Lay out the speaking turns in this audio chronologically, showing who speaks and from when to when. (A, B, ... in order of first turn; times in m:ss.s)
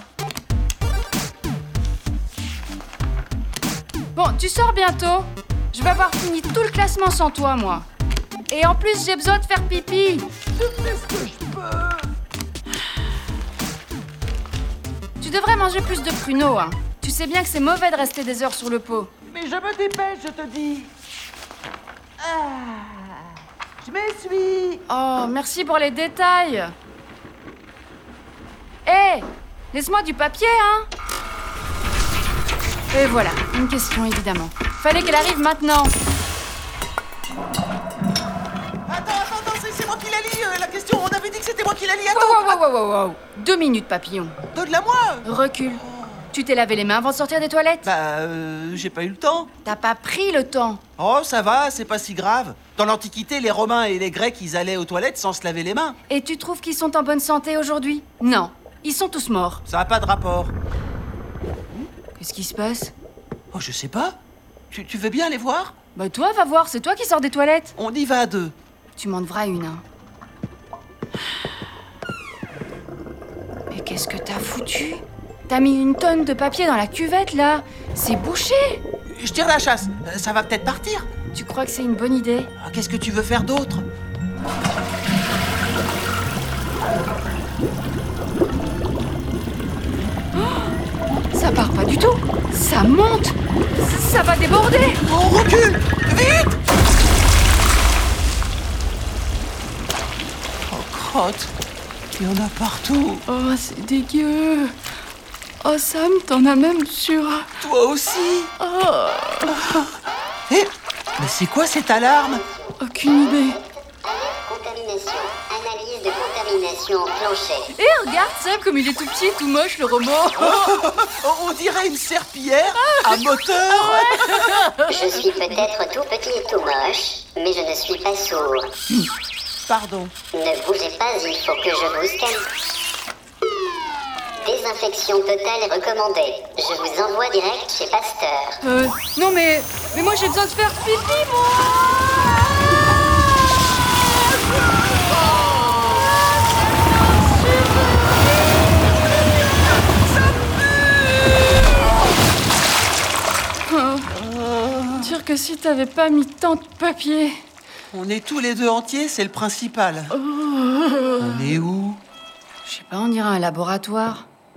0:04.1-0:07.9 A
0:08.5-0:10.3 A
0:10.5-0:12.1 B
0:15.2-0:19.1 A
0:19.2-0:20.9 B
0:22.2-0:24.8 B
0:24.9-0:26.7 A
0:28.8-0:30.9 A
0:32.9-0:35.9 A
0:38.9-0:42.6 B
0:42.1-0:44.4 A
0:44.5-0:46.3 B
0:45.2-0:47.9 A
0:47.8-0:49.5 B
0:49.6-0:50.8 A
0:51.0-0:56.0 B
0:56.1-0:59.6 A
0:59.7-1:00.5 B
1:02.2-1:02.9 A
1:03.5-1:04.2 B
1:04.7-1:05.7 B
1:05.9-1:07.7 A
1:07.8-1:08.6 B
1:08.9-1:09.8 A
1:13.7-1:18.8 A
1:19.1-1:21.1 B
1:21.3-1:22.5 A
1:22.6-1:23.9 B
1:30.4-1:30.7 A
1:31.3-1:35.0 A
1:35.0-1:36.6 B
1:40.7-1:41.5 B
1:42.1-1:43.2 B
1:43.3-1:44.8 A
1:45.6-1:47.5 A
1:47.6-1:48.5 B
1:48.6-1:49.7 A
1:50.5-1:52.4 B
1:52.3-1:57.7 C
1:52.8-1:53.6 A
1:57.8-2:00.7 A
2:00.4-2:04.7 B
2:04.8-2:08.7 C
2:09.7-2:10.2 B
2:10.3-2:12.5 C
2:14.4-2:18.6 C
2:18.6-2:22.1 A
2:27.2-2:28.2 A
2:33.7-2:34.1 A
2:34.1-2:35.1 B
2:35.0-2:37.4 A
2:37.9-2:40.2 B
2:40.2-2:41.6 A
2:41.2-2:42.0 B
2:42.6-2:44.3 A